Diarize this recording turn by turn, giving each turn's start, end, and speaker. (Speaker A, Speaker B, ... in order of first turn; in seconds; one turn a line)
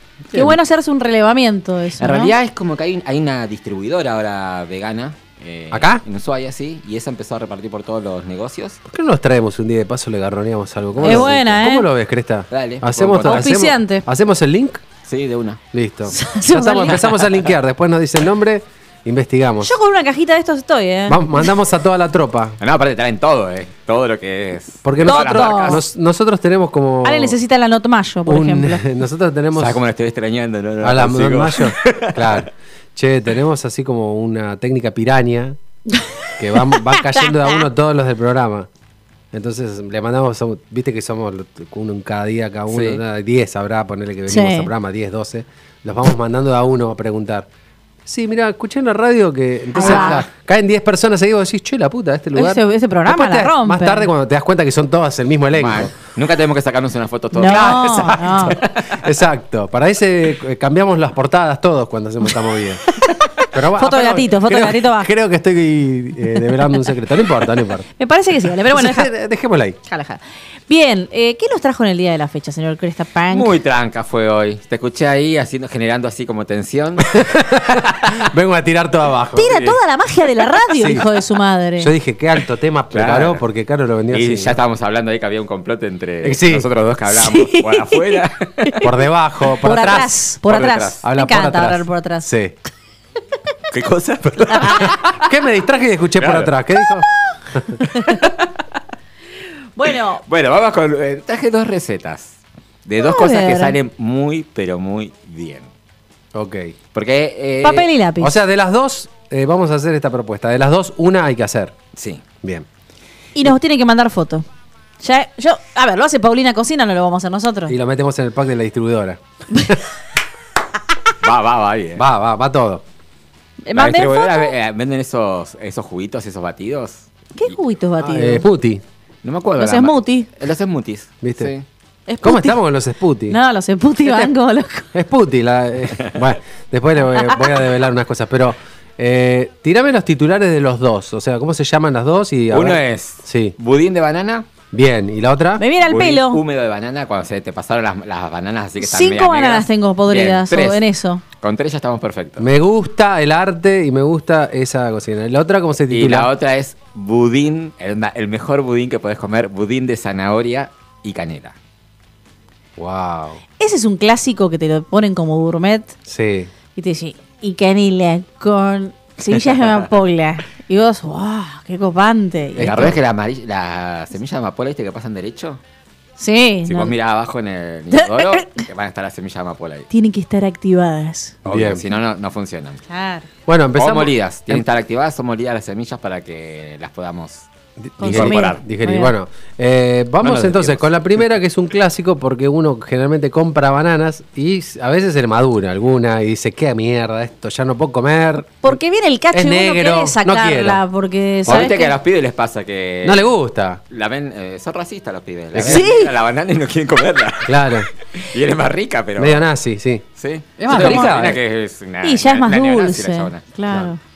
Speaker A: 0.3-2.3
Speaker B: 2.0-8.8
Speaker C: 5.7-6.0
Speaker C: 8.9-14.8
Speaker B: 11.0-11.3
Speaker A: 11.0-11.9
Speaker B: 12.5-13.5
Speaker A: 13.2-14.1
Speaker B: 15.1-15.6
Speaker C: 15.7-19.7
Speaker A: 16.1-17.1
Speaker B: 16.9-17.4
Speaker A: 19.6-21.5
Speaker C: 21.1-22.6
Speaker B: 22.6-25.8
Speaker C: 24.9-27.4
Speaker A: 25.1-25.8
Speaker A: 27.0-28.9
Speaker C: 28.3-29.8
Speaker B: 29.6-32.5
Speaker C: 30.8-35.6
Speaker A: 35.9-37.6
Speaker C: 36.4-38.7
Speaker C: 39.3-47.5
Speaker B: 42.7-43.0
Speaker A: 44.3-44.7
Speaker C: 48.1-55.9
Speaker A: 49.7-50.3
Speaker B: 49.8-50.2
Speaker A: 52.4-54.1
Speaker B: 55.5-59.0
Speaker A: 57.3-58.6
Speaker C: 57.5-62.9
Speaker C: 63.5-67.9
Speaker A: 63.7-65.1
Speaker A: 68.0-69.1
Speaker C: 68.7-69.8
Speaker A: 69.8-73.5
Speaker B: 73.3-78.2
Speaker C: 77.1-79.5
Speaker A: 79.3-81.9
Speaker B: 79.5-79.8
Speaker C: 80.8-81.1
Speaker C: 81.8-84.6
Speaker B: 82.9-83.4
Speaker B: 84.1-88.8
Speaker C: 86.2-86.7
Speaker A: 87.1-88.9
Speaker C: 88.8-90.1
Speaker A: 89.6-92.3
Speaker B: 90.5-91.0
Speaker C: 91.0-92.5
Speaker B: 93.7-95.2
Speaker A: 94.5-95.0
Speaker C: 94.8-97.7
Speaker B: 96.2-96.5
Speaker A: 97.7-98.3
Speaker B: 98.0-98.6
Speaker A: 99.8-100.2
Speaker B: 100.3-105.7
Speaker A: 103.0-103.8
Speaker C: 106.3-106.7
Speaker B: 106.9-107.9
Speaker A: 107.6-108.4
Speaker C: 108.2-111.8
Speaker B: 112.0-112.2
Speaker C: 112.4-112.7
Speaker A: 113.3-114.5
Speaker A: 115.0-117.8
Speaker C: 117.7-119.8
Speaker B: 121.2-122.0
Speaker C: 122.0-122.8
Speaker A: 123.7-124.5
Speaker B: 123.7-127.1
Speaker A: 127.4-128.4
Speaker C: 128.0-128.8
Speaker B: 129.2-131.7
Speaker A: 129.6-130.3
Speaker C: 131.2-131.5
Speaker A: 132.1-132.6
Speaker C: 132.2-133.4
Speaker A: 133.3-134.9
Speaker C: 134.9-143.6
Speaker B: 142.5-144.5
Speaker C: 144.7-145.6
Speaker A: 145.6-146.4
Speaker B: 145.8-150.8
Speaker A: 148.8-151.2
Speaker B: 151.4-152.5
Speaker C: 152.4-156.3
Speaker B: 155.9-161.6
Speaker C: 162.8-163.4
Speaker A: 163.6-165.9
Speaker C: 166.1-166.5
Speaker A: 166.8-172.8
Speaker C: 172.6-173.0
Speaker B: 172.6-175.6
Speaker A: 176.2-176.9
Speaker B: 176.7-179.9
Speaker A: 177.9-178.6
Speaker A: 179.9-181.4
Speaker B: 181.4-182.8
Speaker C: 181.5-181.8
Speaker A: 182.9-183.3
Speaker C: 183.5-184.6
Speaker B: 183.8-187.5
Speaker C: 187.8-198.8
Speaker A: 188.0-189.1
Speaker B: 188.0-188.6
Speaker B: 190.2-191.1
Speaker A: 198.6-201.9
Speaker C: 199.3-200.8
Speaker C: 201.5-201.7
Speaker B: 201.5-203.3
Speaker C: 203.0-203.8
Speaker B: 203.9-209.5
Speaker C: 205.5-205.9
Speaker A: 205.6-206.1
Speaker C: 207.5-207.9
Speaker C: 209.2-210.0
Speaker B: 210.2-213.4
Speaker C: 210.6-211.4
Speaker A: 210.6-211.2
Speaker A: 212.0-214.0